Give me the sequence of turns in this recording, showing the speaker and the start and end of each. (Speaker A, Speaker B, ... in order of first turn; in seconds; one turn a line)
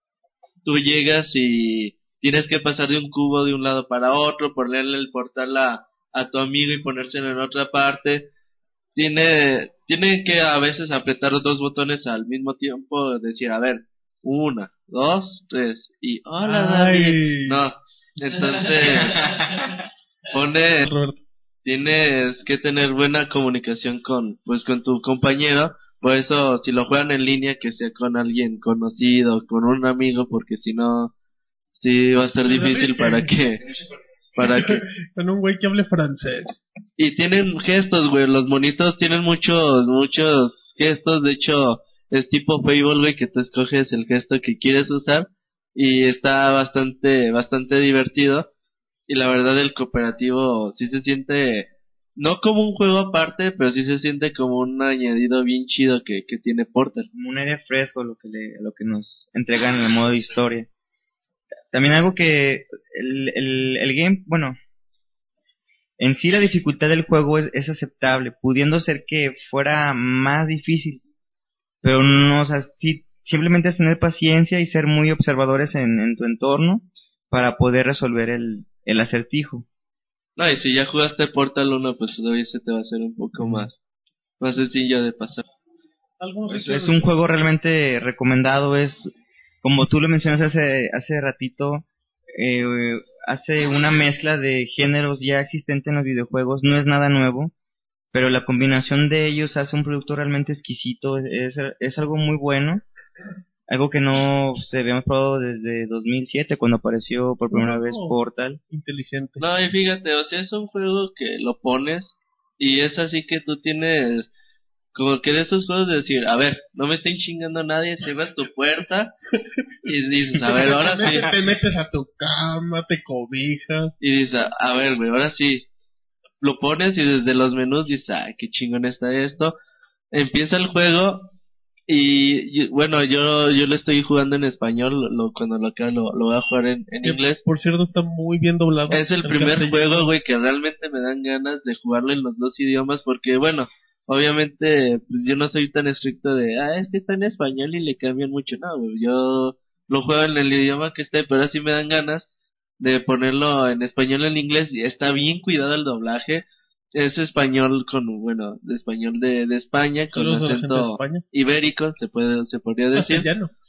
Speaker A: 0.7-8.3
Speaker A: 9.0-19.5
Speaker B: 16.4-17.6
Speaker A: 20.3-20.9
Speaker B: 20.9-21.2
Speaker A: 21.6-31.1
Speaker A: 31.8-33.6
Speaker B: 32.5-33.3
Speaker A: 34.4-34.8
Speaker B: 34.4-36.6
Speaker A: 37.0-48.5
Speaker A: 49.1-57.1
Speaker C: 57.1-60.7
Speaker C: 61.7-64.6
Speaker C: 66.0-71.0
Speaker C: 71.8-79.7
Speaker A: 80.4-83.7
Speaker B: 83.4-83.7
Speaker A: 84.4-85.4
Speaker B: 86.2-87.1
Speaker C: 86.5-97.5
Speaker C: 98.1-102.8
Speaker C: 103.7-108.6
Speaker B: 107.5-108.2
Speaker B: 108.7-109.4
Speaker A: 109.4-114.3
Speaker A: 114.9-119.1
Speaker A: 119.8-121.4
Speaker B: 120.4-123.9
Speaker A: 124.0-125.7
Speaker A: 126.4-129.5
Speaker A: 130.1-131.3
Speaker A: 131.9-137.4
Speaker B: 137.0-140.1
Speaker A: 138.9-152.3
Speaker A: 152.8-163.3
Speaker B: 160.1-161.2
Speaker B: 162.9-163.5